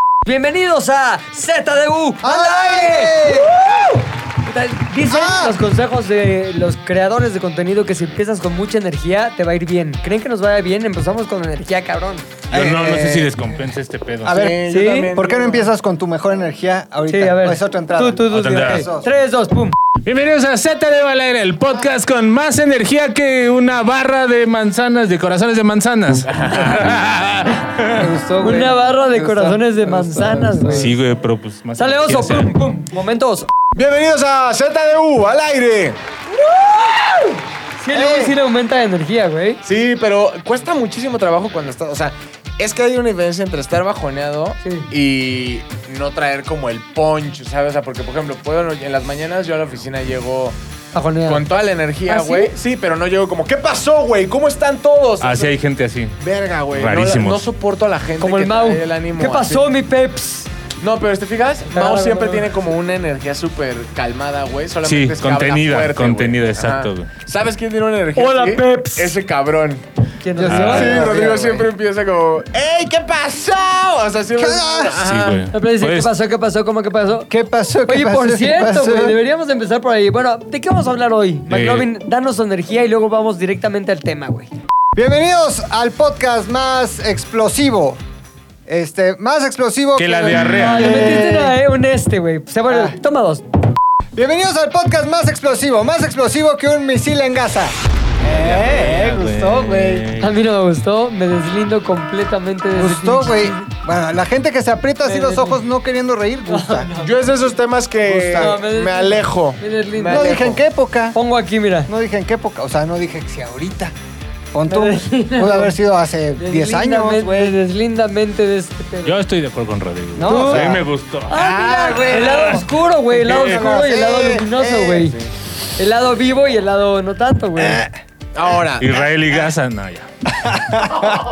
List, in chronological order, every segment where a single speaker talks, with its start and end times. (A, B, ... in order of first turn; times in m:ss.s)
0:00.2-0:12.3 A
0:02.2-0:03.5 B
0:05.0-0:05.6 B
0:12.5-0:13.4 B
0:12.5-0:14.5 C
0:14.2-0:19.1 B
0:14.3-0:15.7 D
0:14.7-0:15.1 A
0:17.1-0:19.8 A
0:18.3-0:18.8 C
0:20.0-0:28.1 C
0:27.9-0:30.9 B
0:28.4-0:30.9 A
0:30.7-0:32.5 C
0:31.8-0:33.5 A
0:33.7-0:36.0 D
0:36.3-0:39.6 A
0:37.9-0:38.3 B
0:39.6-0:50.6 D
0:44.6-0:44.9 A
0:50.9-0:51.5 A
0:51.2-0:55.6 D
0:52.1-0:52.5 A
0:55.2-0:56.2 C
0:56.2-0:59.7 D
0:56.7-0:57.4 C
0:58.2-1:00.5 A
1:00.8-1:09.8 D
1:01.7-1:02.5 A
1:04.8-1:07.1 C
1:08.2-1:09.1 A
1:10.2-1:11.1 A
1:10.3-1:11.7 B
1:10.5-1:15.4 D
1:10.5-1:11.0 C
1:14.4-1:15.0 B
1:15.0-1:16.1 C
1:15.5-1:17.3 A
1:17.3-1:19.2 B
1:17.9-1:24.5 A
1:21.5-1:21.9 C
1:25.0-1:28.0 B
1:28.7-1:31.6 B
1:30.0-1:31.2 C
1:30.4-1:33.4 A
1:32.7-1:33.0 B
1:34.2-1:40.1 B
1:38.3-1:40.3 C
1:40.2-1:43.6 A
1:42.8-1:46.9 B
1:45.0-1:45.6 A
1:46.5-1:47.3 A
1:47.0-1:50.6 D
1:48.0-1:48.6 B
1:48.3-1:50.6 A
1:50.0-1:51.2 B
1:51.1-1:51.9 A
1:51.9-1:53.9 B
1:54.5-1:57.6 B
1:54.7-1:55.8 A
1:56.4-1:59.2 A
1:59.0-2:01.5 C
2:00.2-2:02.7 B
2:00.2-2:00.7 A
2:01.3-2:05.2 A
2:01.4-2:02.0 D
2:02.0-2:02.6 C
2:03.2-2:05.2 B
2:03.2-2:03.6 C
2:05.8-2:07.9 A
2:07.6-2:07.9 B
2:08.3-2:09.0 D
2:08.8-2:10.1 C
2:10.4-2:11.1 B